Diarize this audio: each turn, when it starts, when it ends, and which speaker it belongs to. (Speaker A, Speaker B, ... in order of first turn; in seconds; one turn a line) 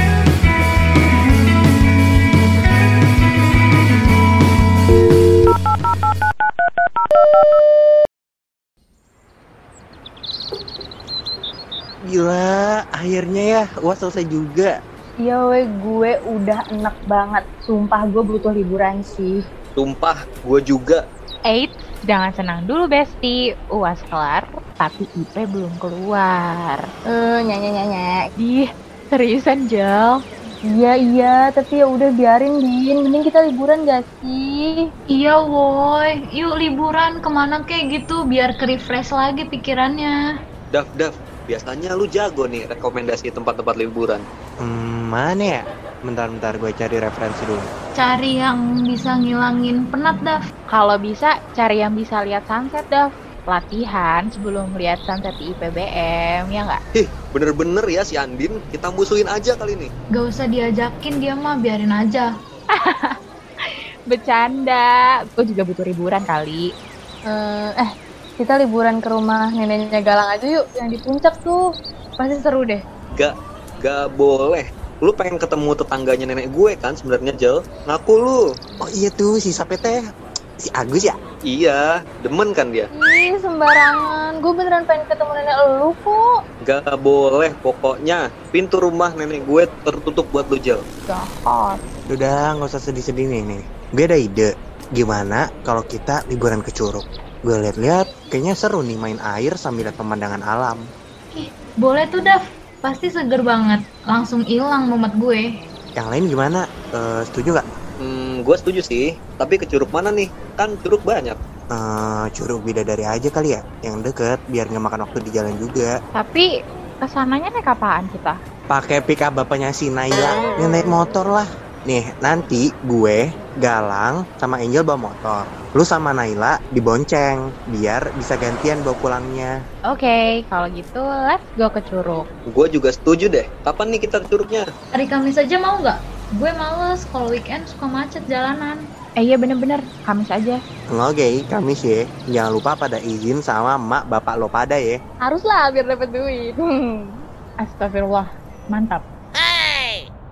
Speaker A: 12.1-14.7
Speaker B: 15.2-19.4
Speaker C: 19.8-21.0
Speaker D: 21.4-26.9
Speaker B: 27.1-28.3
Speaker D: 28.4-30.2
Speaker B: 30.6-34.9
Speaker E: 35.1-40.2
Speaker C: 40.7-44.2
Speaker A: 44.6-47.7
Speaker E: 48.0-50.4
Speaker D: 50.7-56.8
Speaker C: 57.0-59.9
Speaker E: 60.1-62.3
Speaker D: 62.7-63.2
Speaker D: 64.1-66.7
Speaker B: 67.2-71.6
Speaker B: 72.2-72.8
Speaker C: 73.1-78.4
Speaker A: 78.8-80.0
Speaker A: 80.6-81.2
Speaker C: 81.5-82.9
Speaker B: 82.9-86.3
Speaker C: 86.6-90.8
Speaker D: 91.1-91.8
Speaker A: 92.1-100.8
Speaker E: 101.3-105.5
Speaker A: 106.0-107.6
Speaker C: 108.0-111.4
Speaker A: 111.7-115.9
Speaker D: 116.1-116.5
Speaker D: 117.0-118.4
Speaker A: 118.7-129.5
Speaker D: 129.9-132.3
Speaker C: 132.5-134.7
Speaker E: 134.9-138.8
Speaker D: 139.2-140.6
Speaker A: 140.9-145.0
Speaker B: 145.2-147.2
Speaker D: 147.6-149.1